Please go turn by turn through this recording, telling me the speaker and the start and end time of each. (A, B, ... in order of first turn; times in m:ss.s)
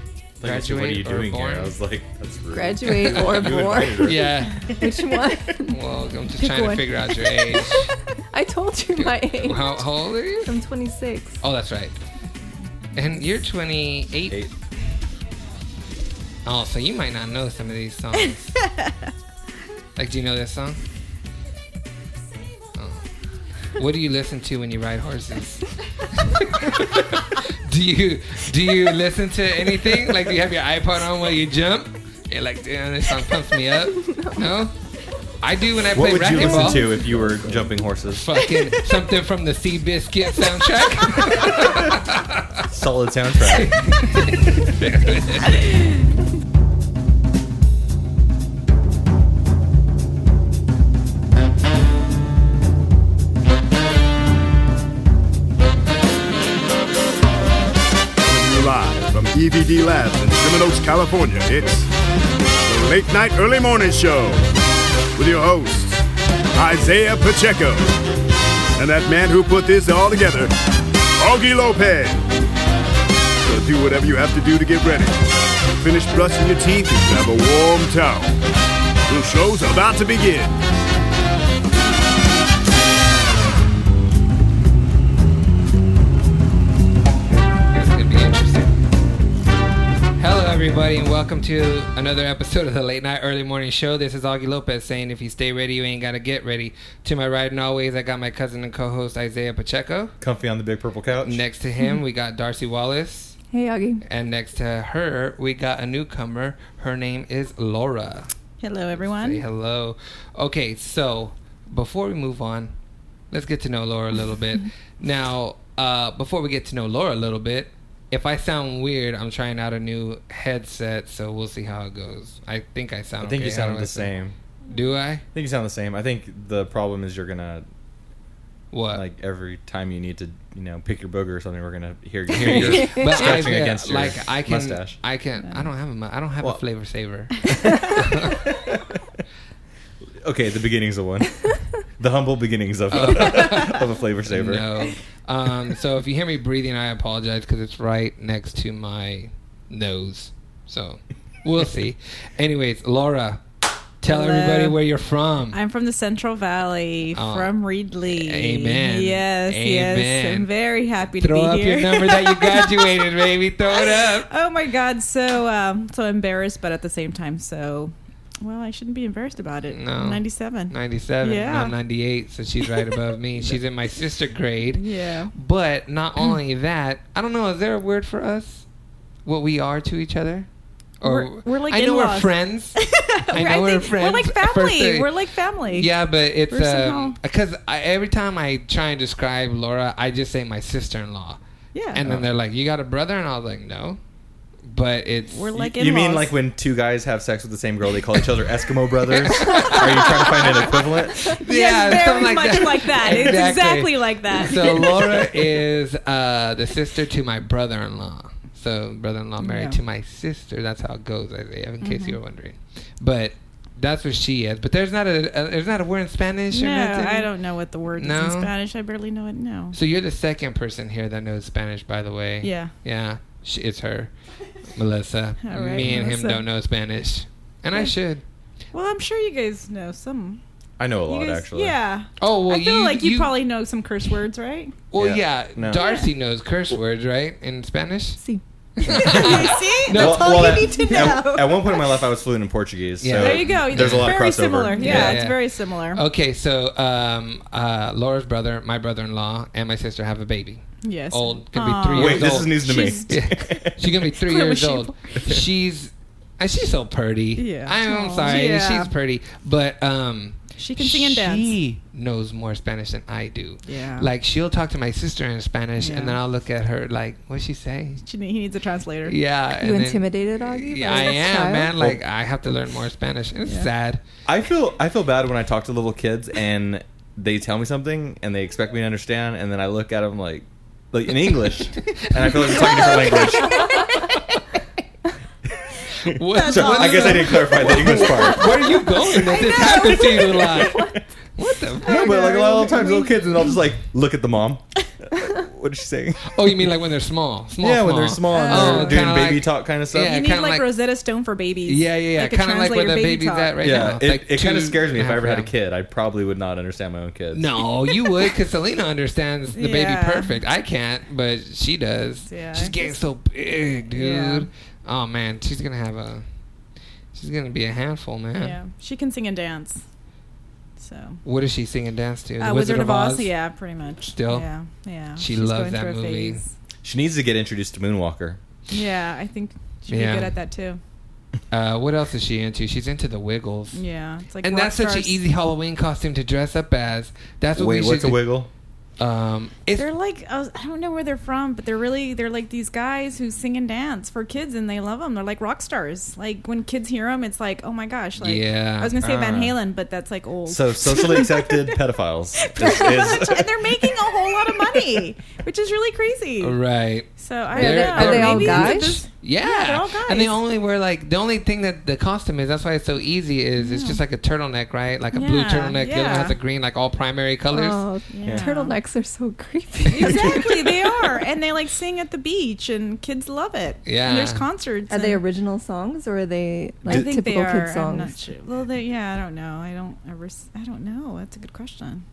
0:00.4-0:04.5 A
0:00.4-0:01.8 B
0:02.5-0:05.8 C
0:03.1-0:04.7 B
0:05.7-0:07.9 B
0:06.4-0:09.9 C
0:09.0-0:10.5 B
0:10.4-0:11.4 C
0:11.4-0:12.0 B
0:13.0-0:14.5 B
0:16.4-0:18.6 B
0:18.6-0:19.1 D
0:20.0-0:20.8 B
0:22.8-0:23.0 B
0:23.6-0:34.7 B
0:34.0-0:34.4 C
0:35.4-0:36.9 B
0:35.9-0:38.9 A
0:38.1-0:42.6 B
0:41.4-0:41.9 A
0:42.6-0:44.7 A
0:43.5-0:45.7 B
0:58.2-1:01.9 E
1:02.6-1:04.5 E
1:05.2-1:06.0 E
1:06.6-1:07.9 E
1:08.8-1:10.5 E
1:11.2-1:12.2 E
1:13.4-1:15.2 E
1:15.8-1:18.4 E
1:19.1-1:20.6 E
1:27.7-1:28.8 B
1:30.2-1:40.2 B
1:40.2-1:41.4 A
1:41.2-1:43.4 B
1:43.5-1:44.0 C
1:44.0-1:48.3 B
1:48.6-1:49.4 D
1:49.0-1:52.8 B
1:53.3-2:04.1 B
2:03.2-2:04.4 A
2:04.7-2:05.2 B
2:05.3-2:07.7 A
2:08.7-2:09.0 B
2:08.9-2:15.0 A
2:12.3-2:18.6 B
2:12.7-2:13.1 C
2:17.5-2:18.8 A
2:20.2-2:24.7 A
2:22.9-2:33.4 B
2:34.0-2:35.6 B
2:34.1-2:34.8 D
2:35.5-2:51.8 D
2:37.1-2:37.5 B
2:38.1-2:40.5 B
2:41.2-2:44.3 B
2:49.7-2:58.7 B
2:54.8-2:55.3 D
2:59.2-3:00.5 B
3:01.0-3:05.1 B
3:01.0-3:05.9 D
3:05.7-3:11.4 B
3:06.5-3:07.2 D
3:11.7-3:12.0 D
3:11.9-3:14.0 B
3:14.7-3:15.5 B
3:15.3-3:16.3 D
3:15.6-3:21.4 A
3:19.1-3:37.3 B
3:19.8-3:25.3 D
3:29.4-3:29.8 D
3:31.8-3:32.2 D
3:36.5-3:39.8 D
3:38.0-3:38.5 B
3:39.7-3:44.1 B
3:42.4-3:42.7 D
3:44.7-3:48.2 B
3:45.4-3:46.4 D
3:48.7-3:50.4 D
3:50.8-3:51.8 A
3:51.1-3:54.8 D
3:52.2-3:53.3 B
3:54.9-3:58.2 B
3:55.0-3:55.8 A
3:55.8-3:56.1 D
3:58.8-4:00.8 B
3:58.9-4:02.0 D
3:59.0-4:05.2 A
4:03.0-4:04.2 B
4:03.2-4:06.0 D
4:04.8-4:28.0 B
4:10.8-4:13.1 D
4:11.9-4:13.8 A
4:14.2-4:15.2 D
4:17.4-4:18.9 D
4:20.6-4:21.5 D
4:23.7-4:24.1 D
4:25.8-4:26.2 D
4:28.0-4:29.2 D
4:29.0-4:34.0 B
4:29.6-4:31.7 C
4:34.3-4:43.8 A
4:42.4-4:43.9 D
4:46.0-4:52.2 B
4:46.1-4:48.8 A
4:46.3-4:50.8 D
4:50.6-4:51.0 A
4:51.8-4:53.4 D
4:51.9-4:56.7 A
4:56.2-5:00.6 B
4:57.6-5:00.2 A
4:58.3-4:59.1 D
5:00.0-5:03.9 D
5:01.7-5:05.5 B
5:03.6-5:07.6 A
5:07.3-5:16.2 B
5:09.5-5:10.4 D
5:12.3-5:13.0 D
5:13.9-5:14.5 D
5:17.1-5:18.6 B
5:18.4-5:19.8 D
5:20.8-5:21.2 D
5:21.2-5:23.3 B
5:22.4-5:26.5 D
5:24.1-5:24.5 B
5:25.2-5:26.4 B
5:26.8-5:28.4 A
5:28.7-5:30.8 D
5:29.9-5:30.4 B
5:31.5-5:33.8 B
5:33.7-5:35.2 D
5:34.4-5:38.3 B
5:37.6-5:38.5 A
5:39.0-5:39.9 B
5:39.8-5:51.8 D
5:48.2-5:49.0 B
5:49.0-5:49.6 A
5:50.5-5:53.8 A
5:52.4-5:56.6 D
5:56.4-6:07.8 B
5:57.2-6:00.4 D
5:57.6-5:59.0 C
6:03.6-6:04.0 D
6:05.1-6:06.4 D
6:07.5-6:10.5 C
6:08.1-6:08.8 D
6:09.9-6:15.2 D
6:10.1-6:10.5 A
6:13.8-6:14.4 B
6:14.9-6:18.1 C
6:16.8-6:22.0 D
6:16.9-6:17.1 A